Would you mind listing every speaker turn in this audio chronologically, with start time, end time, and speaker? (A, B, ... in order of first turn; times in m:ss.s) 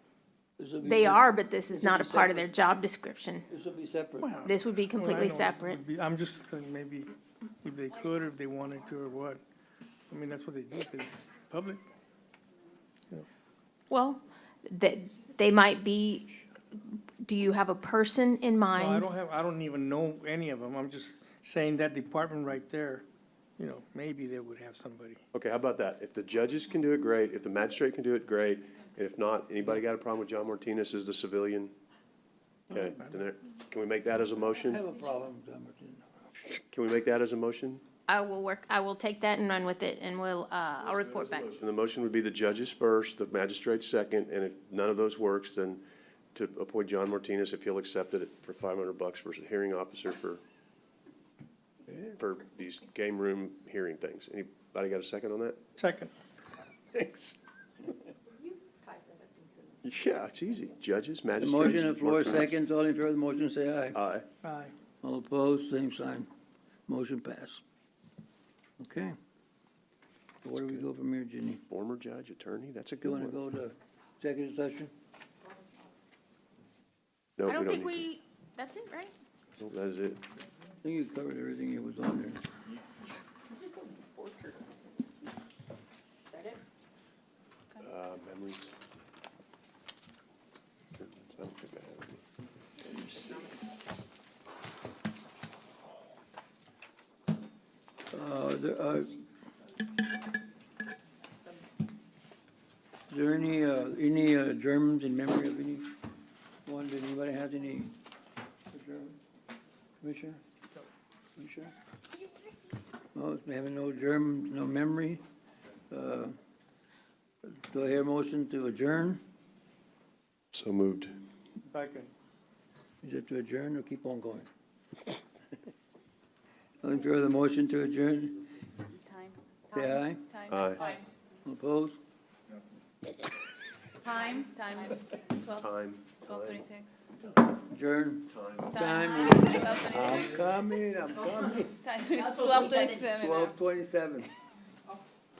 0:00.6-0:02.5 A
0:00.8-0:03.4 B
0:03.5-0:04.3 A
0:04.2-0:07.1 C
0:04.4-0:05.8 B
0:07.6-0:09.4 C
0:10.1-0:11.8 C
0:13.9-0:16.3 B
0:17.2-0:19.0 B
0:18.7-0:23.0 C
0:23.6-0:25.2 C
0:25.3-0:31.7 D
0:32.7-0:34.8 D
0:34.6-0:36.0 A
0:36.4-0:37.8 D
0:38.1-0:41.5 B
0:40.8-0:50.4 D
0:51.9-0:55.6 D
0:55.8-0:56.1 C
0:56.9-0:57.4 D
0:59.8-1:02.5 D
1:01.4-1:04.0 A
1:03.9-1:04.3 D
1:04.4-1:04.7 C
1:05.0-1:06.3 A
1:06.9-1:07.6 A
1:08.8-1:09.1 A
1:10.4-1:11.6 A
1:11.7-1:13.4 D
1:13.0-1:14.9 A
1:17.4-1:18.0 D
1:17.5-1:19.1 B
1:19.6-1:20.2 D
1:20.8-1:22.4 A
1:27.8-1:28.7 D
1:31.0-1:32.2 D
1:32.8-1:33.5 A
1:38.1-1:39.2 A
1:43.1-1:45.9 A
1:46.6-1:47.9 A
1:48.7-1:49.2 A
1:50.0-1:50.4 A
1:51.4-1:51.7 A
1:53.1-1:55.2 A
1:55.9-1:56.3 A
1:57.4-1:59.2 A
2:00.5-2:01.2 D
2:01.7-2:02.1 C
2:03.0-2:04.5 A
2:06.8-2:08.5 A
2:09.0-2:11.0 E
2:09.7-2:10.2 A
2:10.5-2:10.9 D
2:11.4-2:12.0 A
2:14.3-2:15.6 E
2:15.5-2:16.6 D
2:16.2-2:16.9 E
2:17.7-2:21.7 A
2:18.3-2:18.7 D
2:18.7-2:20.4 E
2:21.8-2:23.5 E
2:23.1-2:24.3 A